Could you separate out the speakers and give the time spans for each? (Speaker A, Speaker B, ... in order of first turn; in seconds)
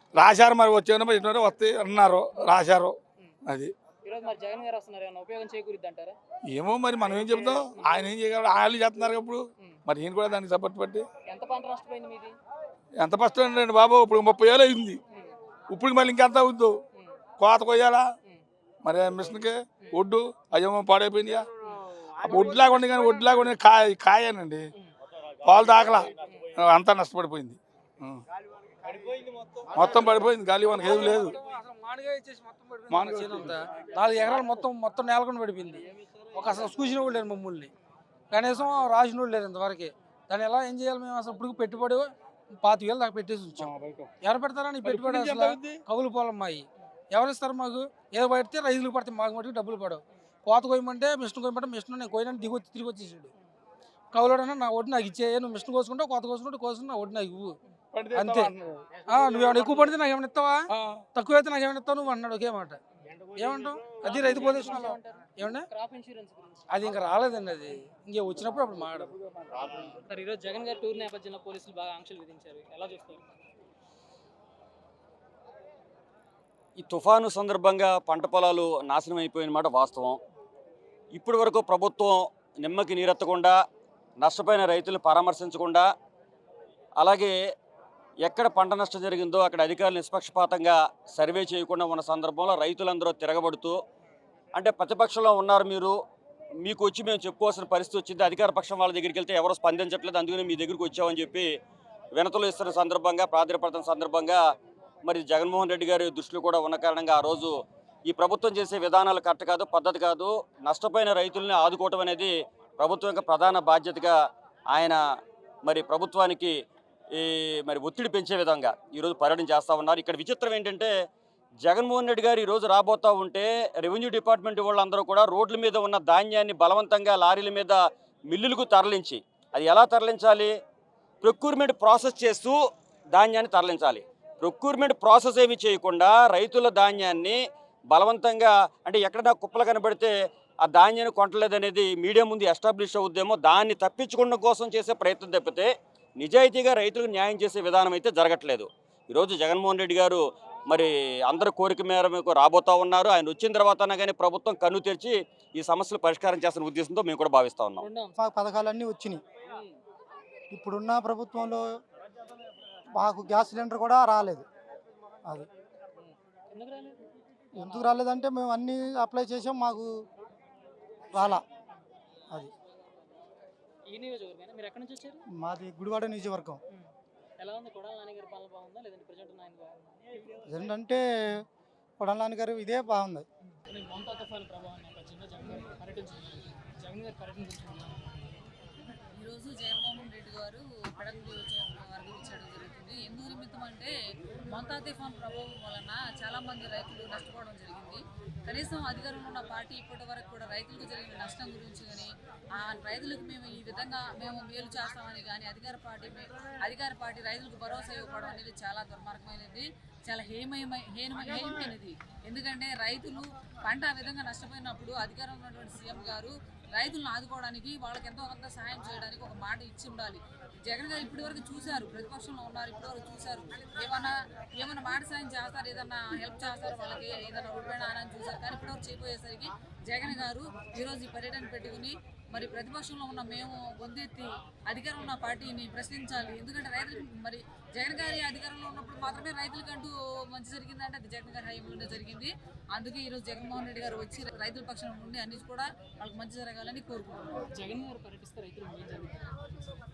Speaker A: 0.1-3.0, 3.5-3.7, 6.5-11.1, 13.0-15.0, 15.7-16.7, 17.4-18.1, 18.8-21.5, 22.2-24.6, 25.4-28.2, 29.7-31.4, 32.9-33.6, 43.6-44.1, 44.8-45.8, 57.9-59.0, 60.7-61.0
Speaker B: 4.0-6.2, 11.2-12.3, 64.0-66.6, 69.8-73.2, 157.8-158.2, 166.0-167.0, 167.6-168.0, 173.9-175.2, 176.7-179.9, 183.7-188.3, 247.5-249.3
Speaker C: 30.8-37.7, 38.3-53.3, 54.1-57.6, 58.1-58.5, 59.0-62.8, 63.3-65.7, 66.7-69.2
Speaker D: 76.8-80.2, 81.2-83.5, 84.2-85.8, 87.0-87.3, 88.2-93.8, 94.5-95.9, 96.6-101.5, 102.1-104.4, 105.0-107.5, 108.1-114.2, 114.7-115.0, 115.7-116.5, 117.2-120.9, 121.6-127.8, 128.3-130.5, 131.2-132.6, 133.1-137.4, 137.9-140.1, 140.6-157.8
Speaker E: 158.2-159.2, 160.5-161.6, 162.9-164.4, 167.6-169.9, 171.1-171.4, 175.4-176.6, 180.5-181.4, 182.0-183.2
Speaker F: 189.1-193.9, 194.5-247.5